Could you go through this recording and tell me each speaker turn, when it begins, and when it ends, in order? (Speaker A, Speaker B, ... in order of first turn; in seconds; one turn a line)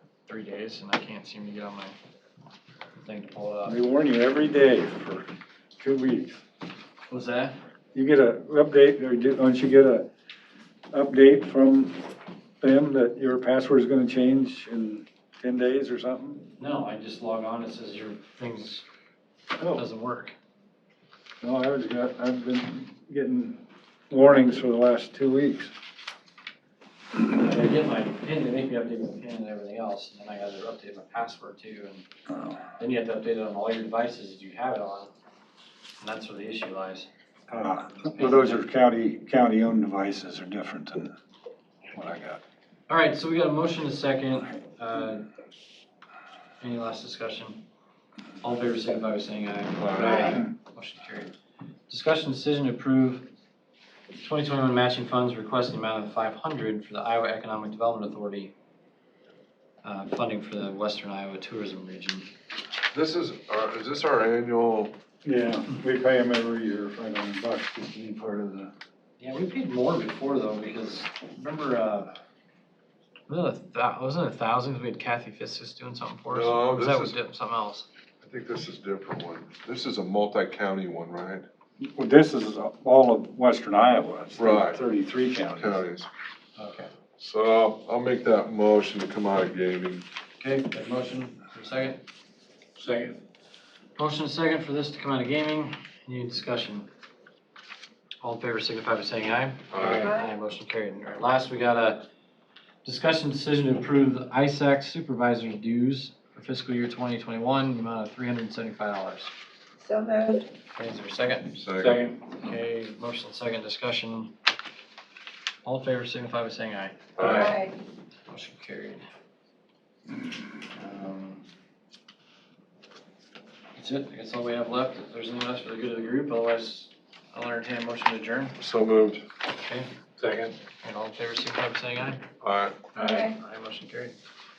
Speaker A: 0.3-1.9
Speaker A: 3.0-3.8
Speaker B: 3.6-5.3
Speaker B: 5.8-6.4
Speaker A: 7.1-7.5
Speaker B: 7.9-10.1
Speaker B: 10.9-12.0
Speaker B: 12.6-16.5
Speaker A: 16.6-18.8
Speaker B: 19.6-19.8
Speaker A: 19.7-20.3
Speaker B: 21.4-25.7
Speaker A: 27.3-32.0
Speaker A: 32.7-35.1
Speaker A: 36.0-37.1
Speaker B: 37.5-41.1
Speaker A: 38.1-38.5
Speaker B: 41.9-42.4
Speaker A: 42.9-45.3
Speaker A: 46.6-47.6
Speaker A: 48.4-51.3
Speaker C: 49.8-50.3
Speaker D: 50.0-50.3
Speaker A: 51.9-53.3
Speaker A: 54.1-58.5
Speaker A: 59.8-62.3
Speaker C: 62.9-64.9
Speaker B: 65.2-68.7
Speaker A: 69.2-72.1
Speaker A: 73.3-77.9
Speaker C: 76.3-77.1
Speaker C: 78.2-81.4
Speaker B: 81.8-85.8
Speaker C: 84.3-84.8
Speaker C: 85.5-86.1
Speaker A: 86.6-86.9
Speaker C: 87.2-90.0
Speaker A: 90.4-92.0
Speaker B: 92.8-93.1
Speaker A: 94.0-96.9
Speaker A: 98.2-102.1
Speaker C: 99.7-100.1
Speaker D: 99.8-100.3
Speaker A: 102.8-109.3
Speaker D: 109.8-110.5
Speaker A: 110.7-111.5
Speaker C: 111.5-112.1
Speaker A: 112.3-114.3
Speaker A: 115.6-117.6
Speaker C: 117.2-117.5
Speaker D: 117.2-117.7
Speaker A: 118.3-119.0
Speaker A: 120.7-121.4
Speaker A: 123.8-128.6
Speaker C: 128.6-129.2
Speaker A: 129.6-129.9
Speaker A: 130.8-132.2
Speaker C: 132.4-132.8
Speaker A: 132.9-134.1
Speaker D: 133.0-133.3